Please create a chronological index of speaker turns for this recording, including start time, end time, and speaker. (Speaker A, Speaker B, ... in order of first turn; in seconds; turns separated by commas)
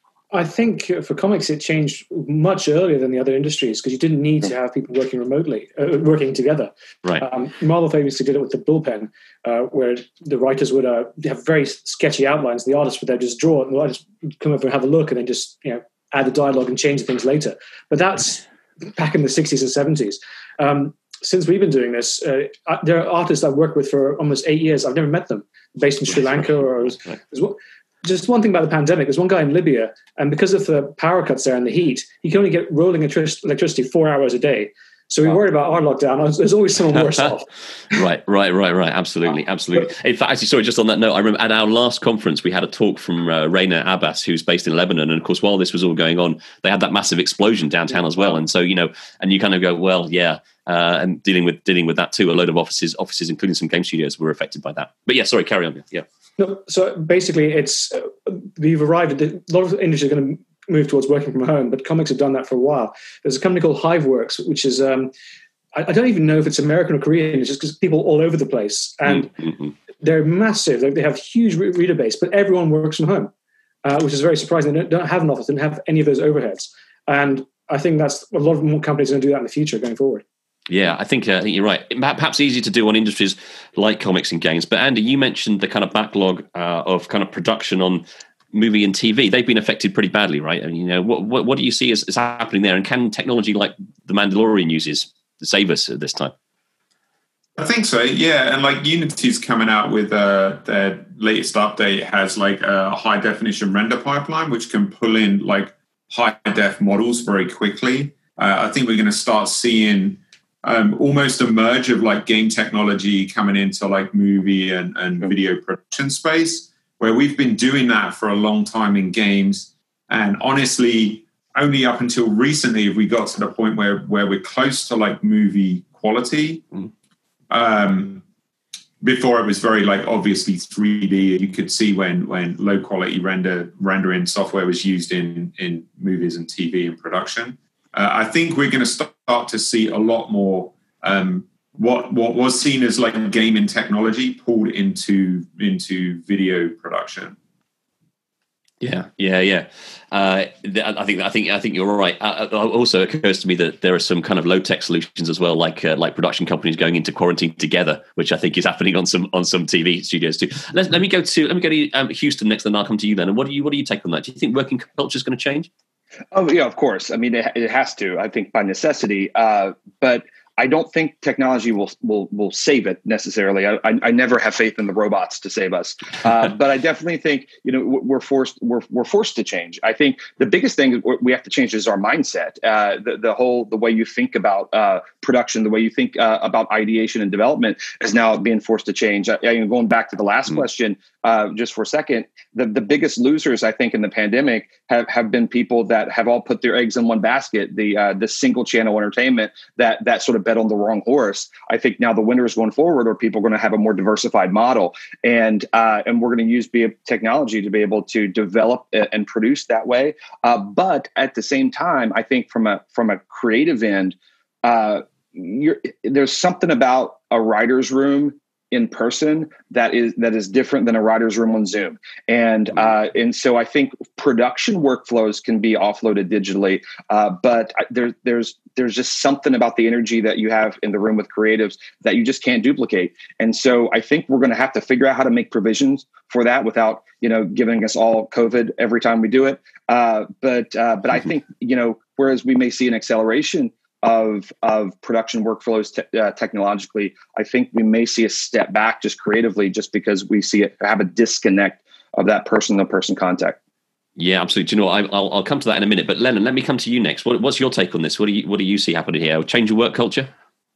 Speaker A: 0.3-18.4, Speaker A: 18.9-37.5, Speaker B: 37.9-56.0, Speaker A: 56.4-65.1, Speaker A: 65.7-69.3, Speaker B: 69.2-69.7, Speaker A: 70.0-73.3, Speaker A: 73.8-80.2, Speaker B: 80.7-96.3, Speaker C: 97.6-126.6, Speaker C: 127.5-128.2, Speaker C: 129.0-147.3, Speaker B: 148.8-165.7, Speaker D: 166.3-253.6, Speaker B: 254.2-260.3